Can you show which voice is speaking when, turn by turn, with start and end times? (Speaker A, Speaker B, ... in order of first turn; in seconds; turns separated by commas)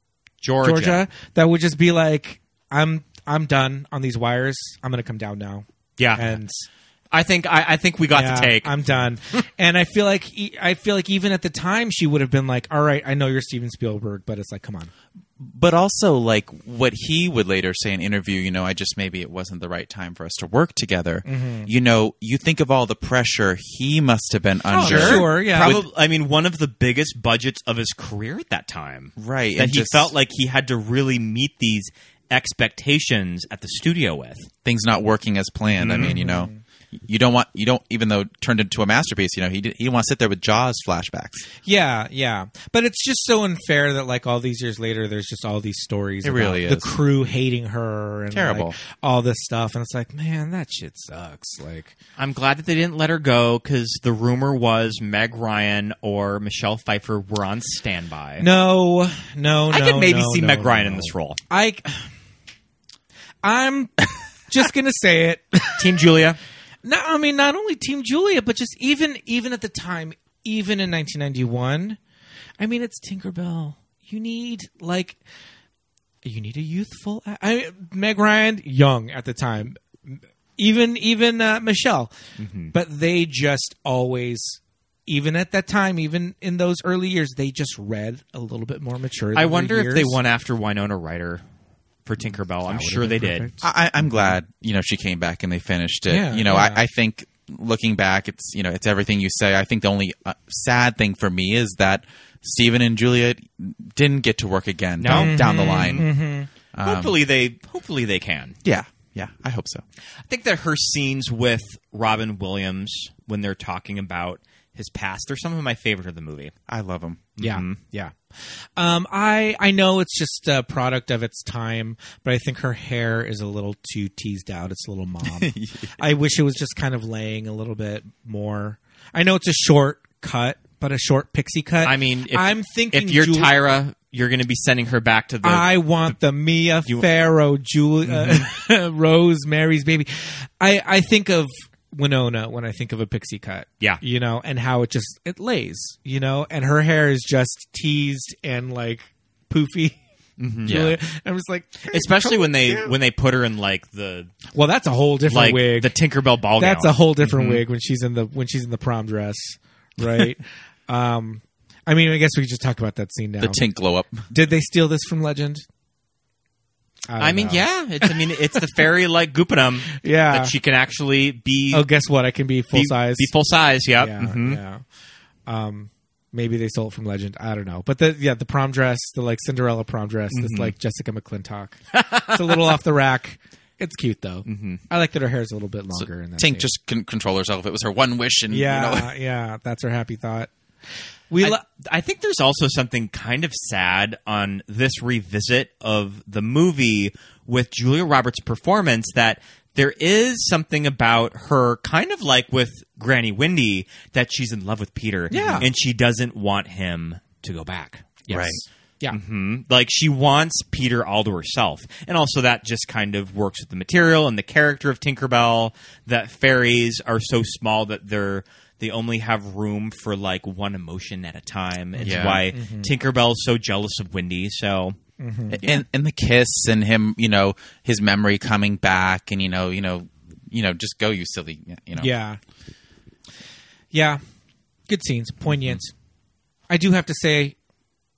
Speaker A: 0.4-1.0, Speaker B: 0.6-6.7, Speaker A: 6.0-6.3, Speaker A: 7.1-8.8, Speaker B: 8.1-14.9, Speaker C: 15.4-25.9, Speaker B: 21.2-21.7, Speaker B: 24.7-25.8, Speaker A: 24.7-34.5, Speaker C: 29.2-30.1, Speaker C: 34.6-41.5, Speaker A: 35.8-36.1, Speaker B: 36.0-36.6, Speaker B: 41.6-51.9, Speaker C: 46.2-47.0, Speaker C: 48.3-48.8, Speaker A: 52.2-58.5, Speaker B: 58.4-62.0, Speaker A: 59.7-61.4, Speaker B: 63.4-66.0, Speaker A: 65.8-66.4, Speaker B: 66.8-72.0, Speaker B: 72.6-75.2, Speaker B: 76.2-82.1, Speaker A: 82.4-82.7, Speaker B: 82.7-90.2, Speaker A: 89.3-91.4, Speaker A: 92.0-93.5, Speaker B: 92.7-94.3, Speaker C: 93.6-106.1, Speaker B: 96.1-96.8, Speaker A: 105.0-106.1, Speaker B: 105.1-106.5, Speaker C: 106.7-107.2, Speaker A: 106.8-108.5, Speaker C: 108.6-109.8, Speaker A: 110.3-116.5, Speaker C: 116.7-117.3, Speaker A: 117.4-117.8, Speaker B: 117.4-118.1, Speaker B: 118.8-133.5, Speaker C: 125.2-125.9, Speaker A: 131.8-136.1, Speaker B: 135.4-150.0, Speaker A: 138.1-138.5, Speaker A: 150.4-150.8, Speaker B: 150.6-152.9, Speaker C: 150.6-151.0, Speaker A: 151.9-154.3, Speaker B: 154.5-155.9, Speaker A: 155.3-157.6, Speaker B: 156.6-163.6, Speaker C: 163.4-164.2, Speaker B: 164.3-165.6, Speaker B: 167.1-168.6, Speaker A: 167.2-171.9, Speaker B: 169.9-170.5, Speaker B: 171.7-173.3, Speaker A: 172.7-174.6, Speaker B: 174.0-174.8, Speaker B: 175.5-186.7, Speaker A: 180.3-180.7, Speaker A: 181.9-182.7, Speaker A: 184.4-184.8, Speaker C: 185.9-189.1, Speaker B: 188.5-190.5, Speaker B: 191.3-191.6, Speaker A: 191.4-208.2, Speaker B: 205.3-205.7, Speaker C: 205.3-205.7, Speaker B: 208.3-209.2, Speaker C: 208.3-208.6, Speaker A: 209.1-225.0, Speaker B: 221.9-222.9, Speaker C: 222.0-222.4, Speaker B: 225.2-225.7, Speaker C: 225.5-232.1, Speaker B: 232.0-232.4, Speaker B: 233.9-234.2, Speaker B: 234.9-235.9, Speaker B: 236.7-237.5